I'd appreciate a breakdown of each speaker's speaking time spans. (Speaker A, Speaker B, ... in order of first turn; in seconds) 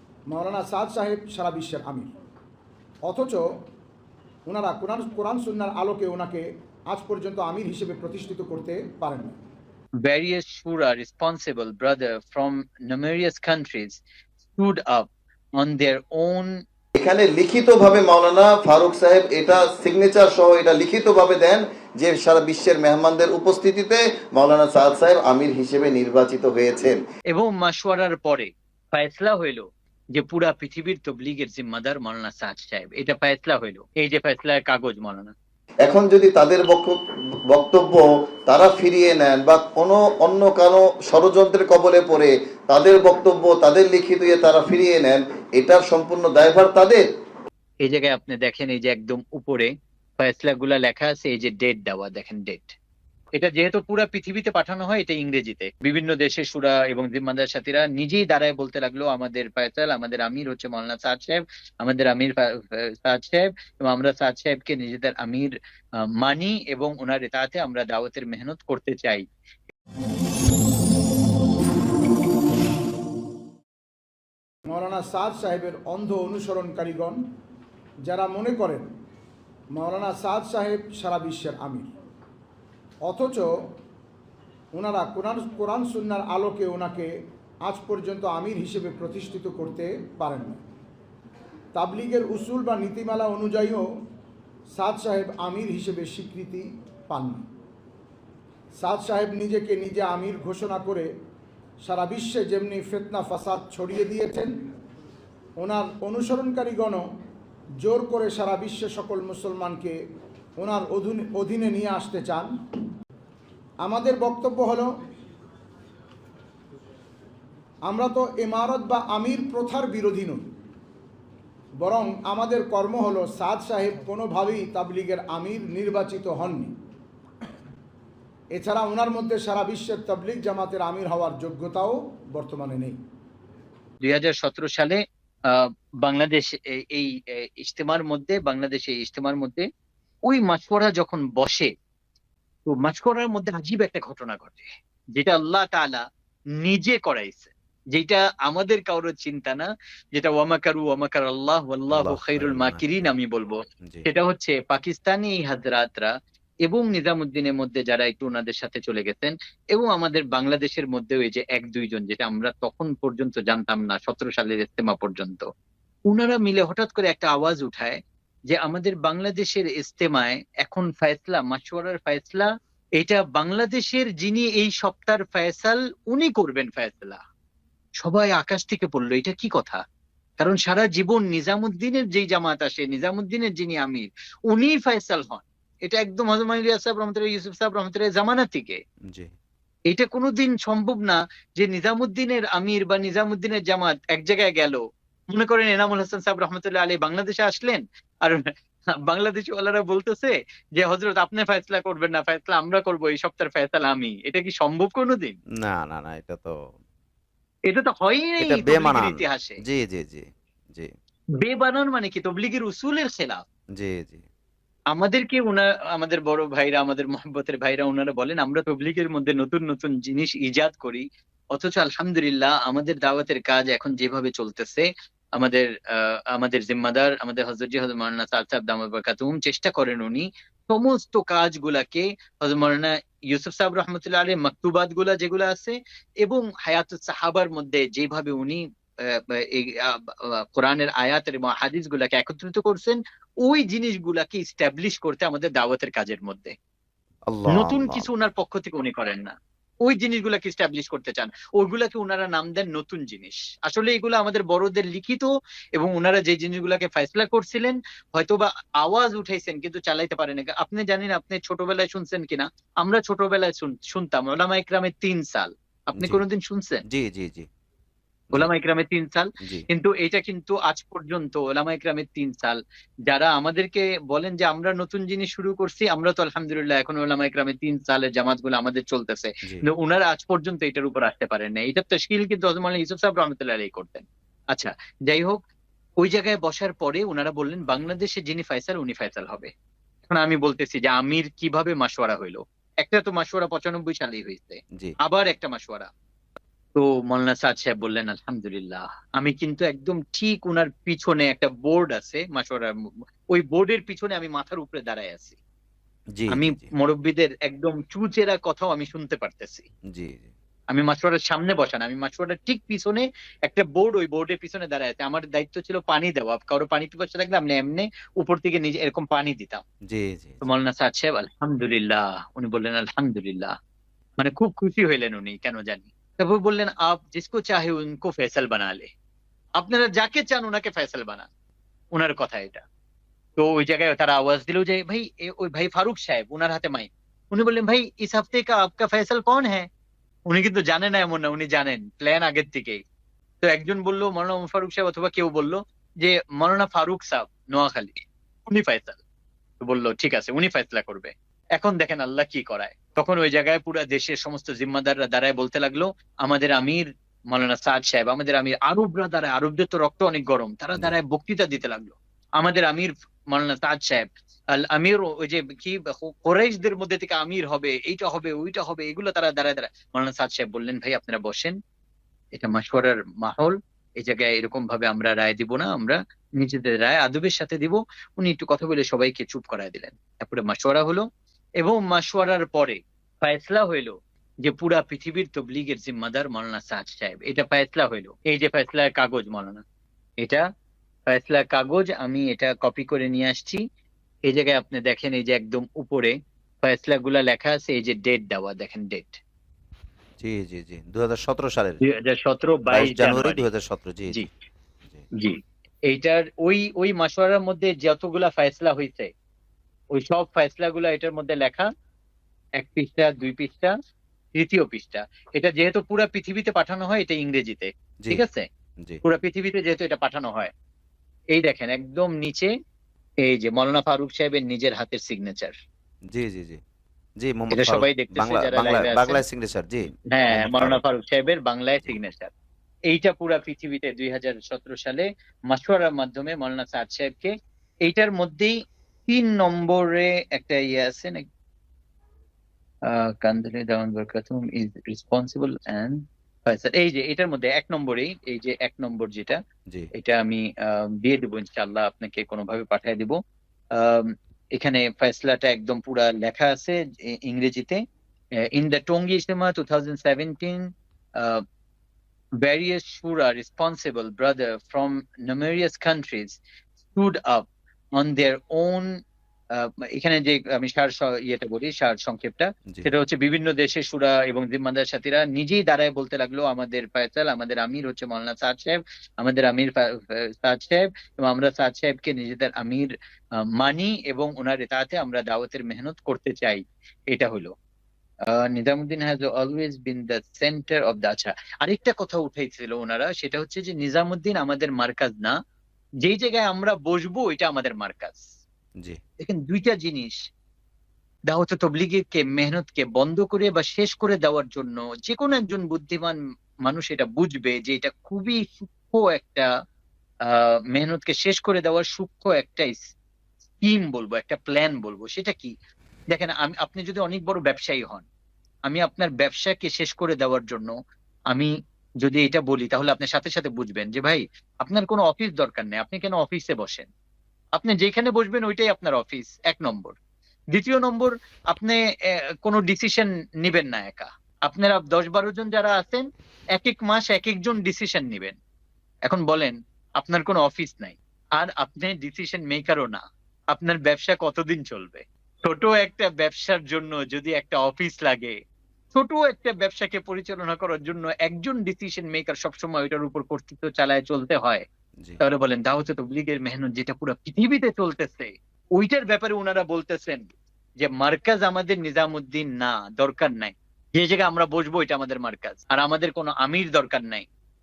Speaker A: 0.3-2.1, 3.1-3.4, 4.5-9.4, 74.7-77.2, 78.1-78.9, 79.7-81.9, 83.1-83.5, 84.7-87.1, 87.6-90.6, 91.7-93.9, 94.7-97.4, 98.8-101.1, 101.8-104.5, 105.6-107.0, 107.8-110.0, 110.6-112.5, 113.8-114.9, 117.9-120.5, 121.8-126.7, 128.5-133.0
Speaker B: 10.0-14.0, 14.6-15.1, 15.6-16.6, 27.3-35.3, 47.8-52.8, 53.4-69.3, 134.0-139.7, 140.3-141.7, 142.7-146.0, 146.6-156.1, 156.7-165.4, 166.1-168.0, 168.5-177.2, 178.0-179.8, 180.4-188.8, 189.9-198.5, 199.1-205.4, 207.7-209.6, 211.4-213.4, 214.9-246.6, 247.5-266.8, 268.3-285.4, 286.0-289.5, 290.1-295.9, 296.8-302.7, 303.3-305.4, 306.3-309.7, 310.7-319.6, 320.4-323.5, 324.2-328.9, 329.6-331.3, 331.9-332.6, 333.4-339.7, 340.3-342.8, 343.4-349.0, 349.6-364.1, 364.6-371.6, 372.4-381.1, 381.6-389.6, 391.1-393.6, 394.3-399.2, 401.8-403.4, 405.9-409.1, 409.9-411.7, 412.6-413.7, 414.4-418.4, 419.0-420.5, 421.3-422.5, 423.2-425.6, 427.5-429.2, 430.1-432.3, 432.9-437.3, 437.9-438.6, 439.1-441.2, 442.9-449.4, 449.9-453.2, 453.7-457.8, 458.5-461.4, 462.4-466.4, 466.9-467.4, 468.0-469.0, 469.5-482.9, 483.6-487.5, 488.5-495.3, 496.0-498.3, 499.2-500.2, 501.3-509.5, 510.3-512.8, 513.6-515.5, 516.1-518.1, 518.7-520.7, 522.0-526.9, 527.6-530.0, 530.5-531.8, 532.4-538.4, 539.1-548.4, 548.9-554.6, 555.2-567.3
Speaker C: 17.0-27.0, 35.9-36.9, 37.5-47.1
Speaker D: 151.9-153.1, 205.6-206.6, 208.4-210.9, 213.8-214.2, 247.3-248.1, 266.9-267.5, 306.2-306.7, 309.9-310.3, 319.9-320.5, 400.2-401.8, 402.7-404.3, 426.1-426.6, 427.2-430.8